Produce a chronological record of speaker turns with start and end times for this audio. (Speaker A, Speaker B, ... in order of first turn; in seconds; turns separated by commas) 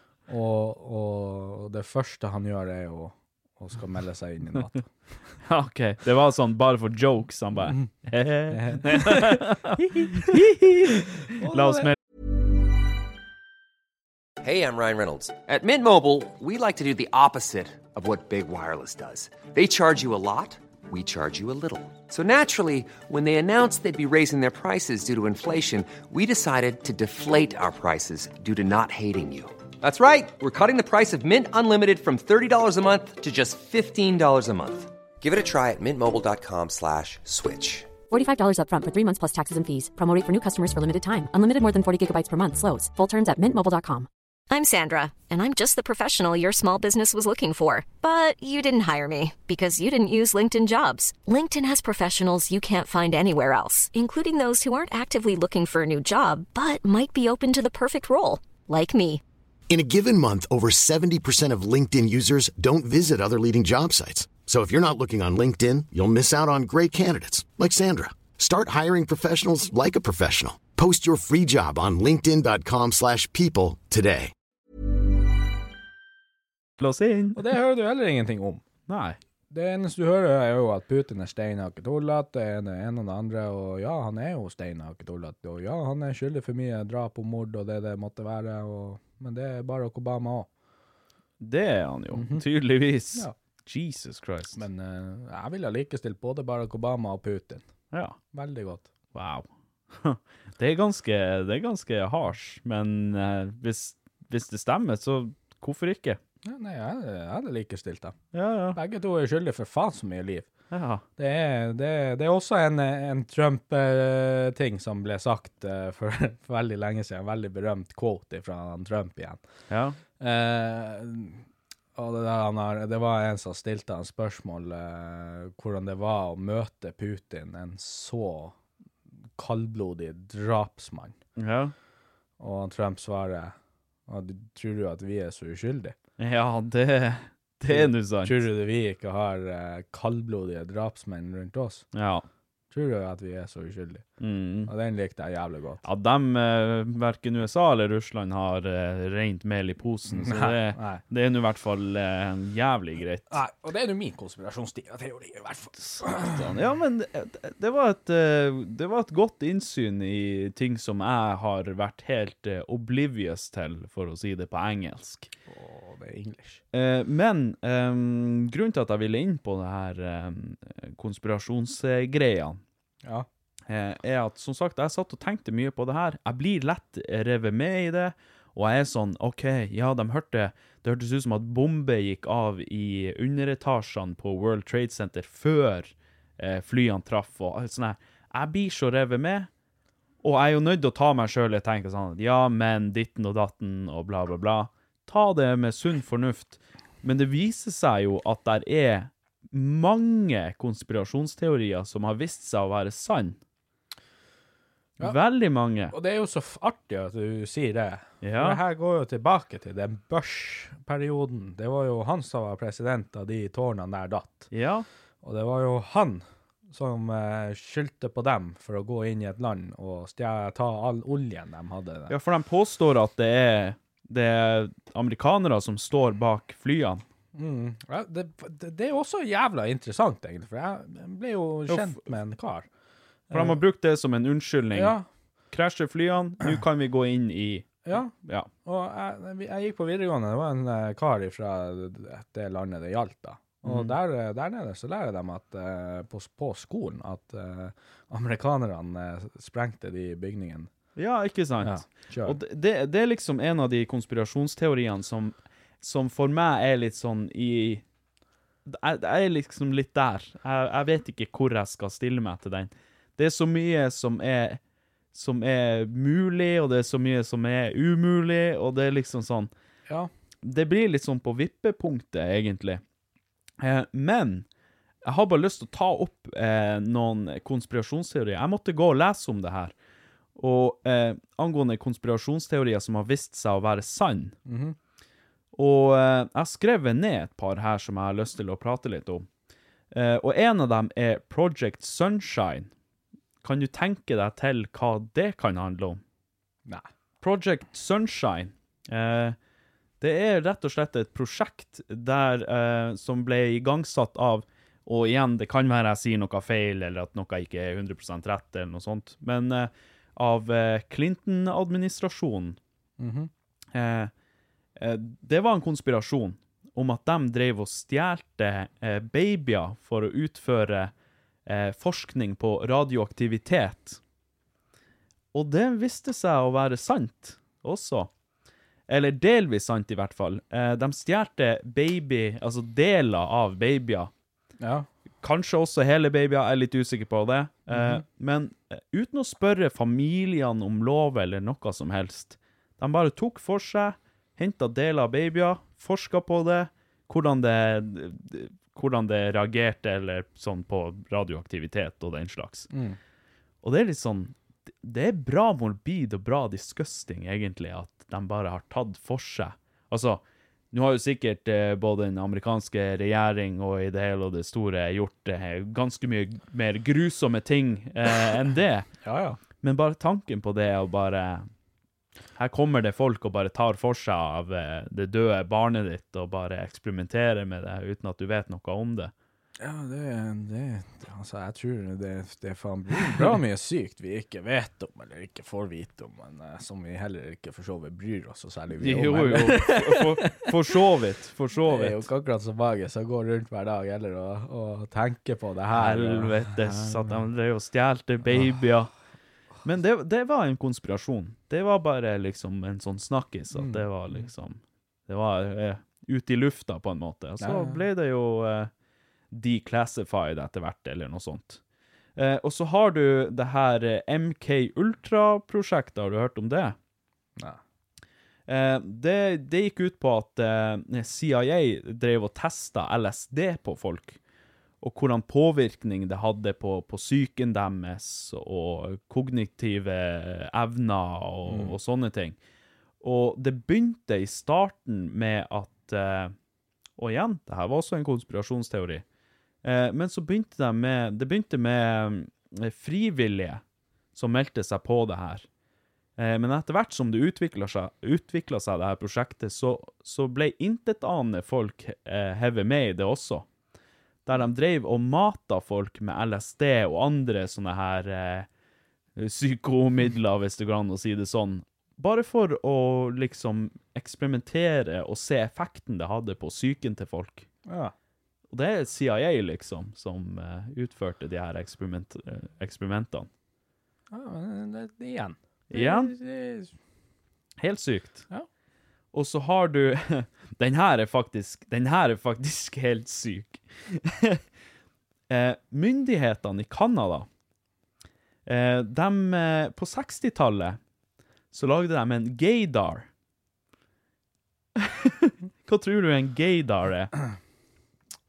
Speaker A: 0.3-4.9, Speaker B: 5.4-11.9, Speaker A: 8.5-11.9, Speaker C: 14.4-37.9, Speaker D: 38.1-44.1, Speaker E: 44.5-59.2, Speaker F: 59.7-74.3, Speaker B: 76.8-77.4, Speaker A: 77.3-78.6, Speaker B: 78.9-79.2, Speaker A: 79.5-90.5, Speaker B: 91.4-94.6, Speaker A: 92.1-92.4, Speaker A: 94.5-97.6, Speaker B: 97.9-98.2, Speaker A: 98.3-98.9, Speaker B: 99.1-106.2, Speaker A: 106.4-108.2, Speaker B: 108.3-108.8, Speaker A: 108.7-110.5, Speaker B: 110.7-111.0, Speaker A: 111.2-119.4, Speaker B: 119.7-120.0, Speaker A: 120.2-121.4, Speaker A: 122.0-128.5, Speaker A: 129.4-131.2, Speaker B: 131.3-131.7, Speaker A: 132.4-133.5, Speaker A: 134.1-135.9, Speaker B: 136.2-138.4, Speaker A: 137.7-141.8, Speaker B: 141.9-142.2, Speaker A: 142.7-144.0, Speaker B: 144.2-144.7, Speaker A: 144.7-145.8, Speaker B: 145.8-153.4, Speaker A: 150.1-151.0, Speaker A: 153.3-156.5, Speaker B: 155.8-165.3, Speaker A: 165.5-166.6, Speaker B: 166.7-172.6, Speaker B: 173.7-189.5, Speaker B: 190.2-203.4, Speaker B: 205.0-205.9, Speaker A: 205.9-214.5, Speaker B: 208.2-208.6, Speaker B: 214.5-214.9, Speaker A: 215.2-222.1, Speaker B: 222.1-227.0, Speaker A: 227.3-232.7, Speaker B: 231.7-232.0, Speaker A: 233.3-233.6, Speaker B: 233.3-234.9, Speaker A: 234.7-235.1, Speaker B: 235.5-238.5, Speaker A: 237.8-238.1, Speaker A: 238.6-250.7, Speaker B: 243.6-243.9, Speaker B: 250.9-257.8, Speaker A: 251.6-252.4, Speaker B: 258.6-264.6, Speaker B: 265.1-269.5, Speaker B: 270.4-272.8, Speaker B: 273.6-274.4, Speaker B: 275.0-279.7, Speaker B: 280.4-284.4, Speaker A: 284.4-284.8, Speaker B: 285.5-289.3, Speaker B: 289.9-292.7, Speaker B: 293.4-296.0, Speaker B: 297.2-299.4, Speaker B: 300.0-312.6, Speaker A: 313.0-313.3, Speaker B: 313.7-314.1, Speaker B: 314.8-320.9, Speaker B: 321.4-324.0, Speaker B: 325.3-328.1, Speaker B: 328.9-334.1, Speaker A: 334.6-334.9, Speaker B: 335.2-352.7, Speaker A: 337.7-338.0, Speaker A: 352.7-353.0, Speaker B: 353.6-368.9, Speaker A: 369.0-369.4, Speaker B: 369.6-371.5, Speaker B: 372.4-379.1, Speaker A: 379.6-390.5, Speaker B: 383.1-383.3, Speaker B: 388.8-392.1, Speaker A: 391.6-397.2, Speaker B: 395.7-398.9, Speaker A: 398.3-398.6, Speaker B: 399.6-408.7, Speaker A: 403.5-404.2, Speaker A: 407.4-407.8, Speaker B: 409.3-411.6, Speaker B: 412.1-416.8, Speaker B: 418.5-424.2, Speaker B: 424.8-432.4, Speaker A: 431.5-431.8, Speaker B: 433.0-436.3, Speaker B: 437.0-439.0, Speaker B: 439.6-443.6, Speaker B: 444.1-445.4, Speaker B: 446.2-453.4, Speaker B: 454.2-458.5, Speaker B: 459.1-467.5, Speaker A: 467.6-467.9, Speaker B: 468.5-473.3, Speaker A: 474.1-476.7, Speaker B: 475.7-476.1, Speaker B: 477.6-478.2, Speaker B: 479.1-484.4, Speaker B: 485.3-487.3, Speaker B: 488.4-490.8, Speaker B: 491.5-493.1, Speaker B: 494.8-497.1